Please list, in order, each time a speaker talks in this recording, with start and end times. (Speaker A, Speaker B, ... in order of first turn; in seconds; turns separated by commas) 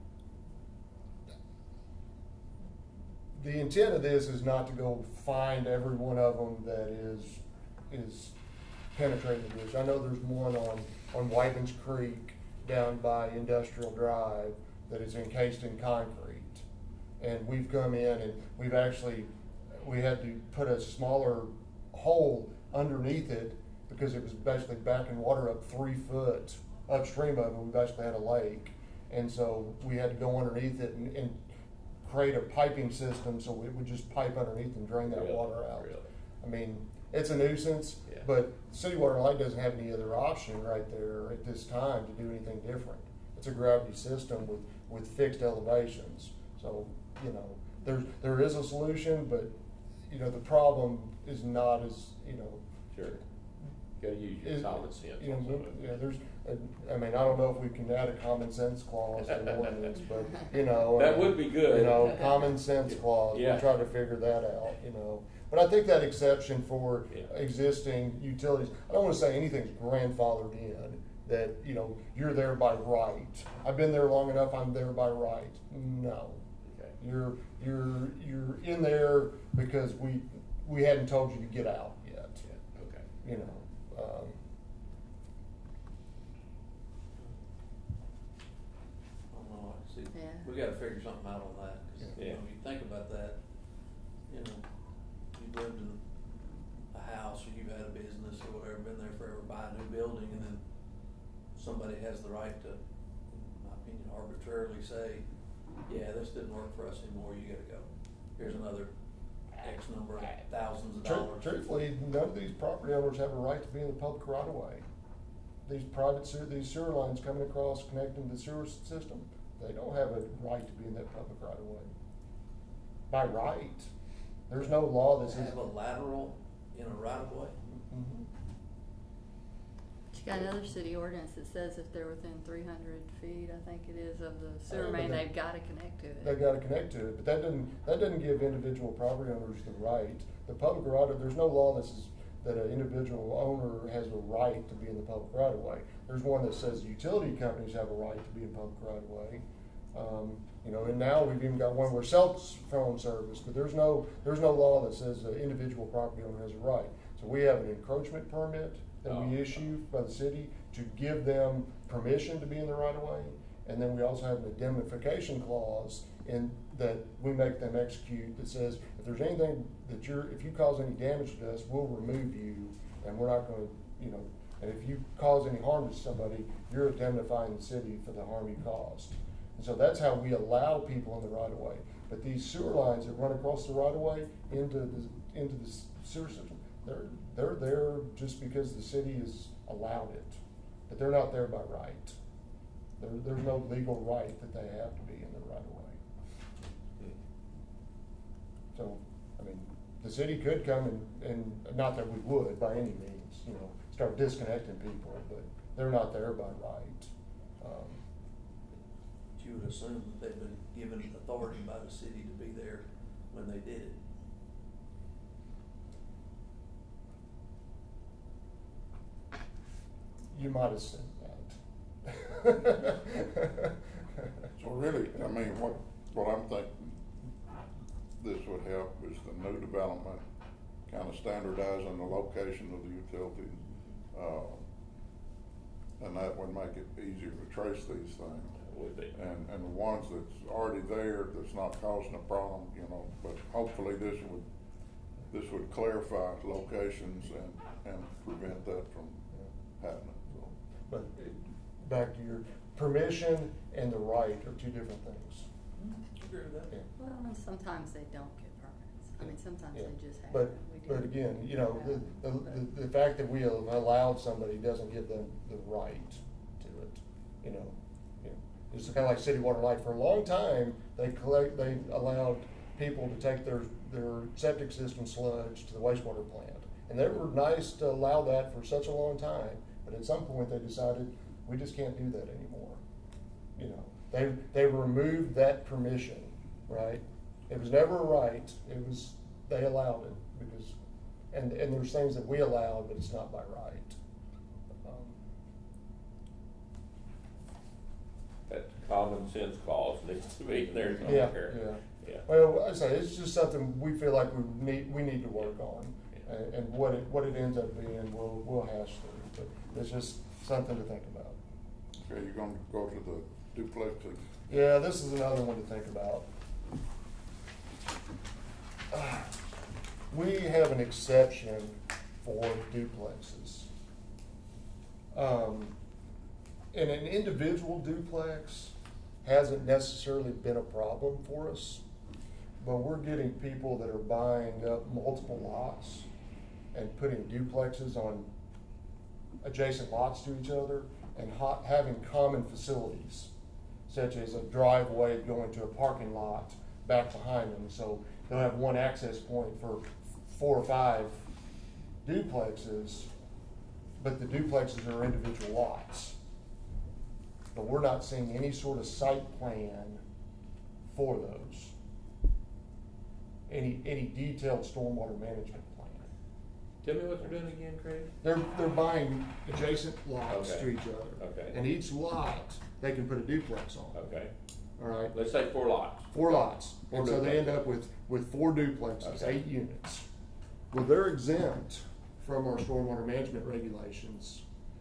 Speaker A: 3.3-8.3, Speaker A: 8.9-16.6, Speaker A: 17.2-31.4, Speaker A: 32.0-49.5, Speaker B: 35.0-36.1, Speaker A: 50.1-53.2, Speaker B: 52.9-53.2, Speaker B: 54.0-55.8, Speaker A: 54.4-76.4, Speaker B: 59.3-60.0, Speaker B: 60.9-63.7, Speaker B: 76.7-76.9, Speaker A: 77.0-82.4, Speaker B: 82.4-83.0, Speaker A: 83.2-84.4, Speaker C: 89.3-93.4, Speaker D: 90.1-90.5, Speaker B: 92.2-92.4, Speaker C: 94.3-94.7, Speaker C: 95.3-96.0, Speaker C: 96.9-100.6, Speaker C: 101.5-105.2, Speaker C: 105.9-108.9, Speaker C: 109.5-111.5, Speaker A: 111.0-114.8, Speaker A: 115.7-121.9, Speaker A: 123.1-123.9, Speaker A: 124.5-125.6, Speaker C: 125.2-127.6, Speaker A: 127.6-128.3, Speaker D: 130.1-136.4, Speaker A: 134.7-135.3, Speaker A: 136.2-192.2, Speaker B: 159.1-159.6, Speaker A: 193.0-196.0, Speaker A: 198.7-208.0, Speaker C: 209.4-214.0, Speaker A: 220.3-224.5, Speaker E: 224.6-227.0, Speaker E: 228.2-230.2, Speaker E: 230.9-234.6, Speaker E: 236.0-238.6, Speaker B: 238.6-239.1, Speaker E: 239.1-244.4, Speaker E: 245.3-249.2, Speaker E: 249.8-250.6, Speaker A: 250.9-255.5, Speaker C: 255.8-256.7, Speaker D: 257.0-262.6, Speaker A: 259.2-282.8, Speaker A: 283.6-290.8, Speaker A: 291.3-294.0, Speaker A: 294.8-295.2, Speaker B: 298.5-302.2, Speaker A: 301.0-311.4, Speaker E: 312.0-314.2, Speaker A: 314.5-316.3, Speaker A: 318.9-319.3, Speaker A: 320.1-323.7, Speaker A: 325.1-325.8, Speaker A: 326.7-331.8, Speaker A: 332.6-336.1, Speaker A: 336.7-338.3, Speaker A: 339.4-343.3, Speaker A: 343.9-351.3, Speaker A: 352.0-353.1, Speaker A: 354.0-356.2, Speaker A: 357.5-360.0, Speaker A: 360.9-361.7, Speaker A: 363.5-366.1, Speaker B: 366.8-368.1, Speaker A: 368.2-374.0, Speaker B: 370.3-371.6, Speaker B: 373.9-374.3, Speaker A: 374.8-375.1, Speaker B: 375.1-377.6, Speaker A: 376.1-380.1, Speaker B: 379.0-379.4, Speaker A: 380.7-384.4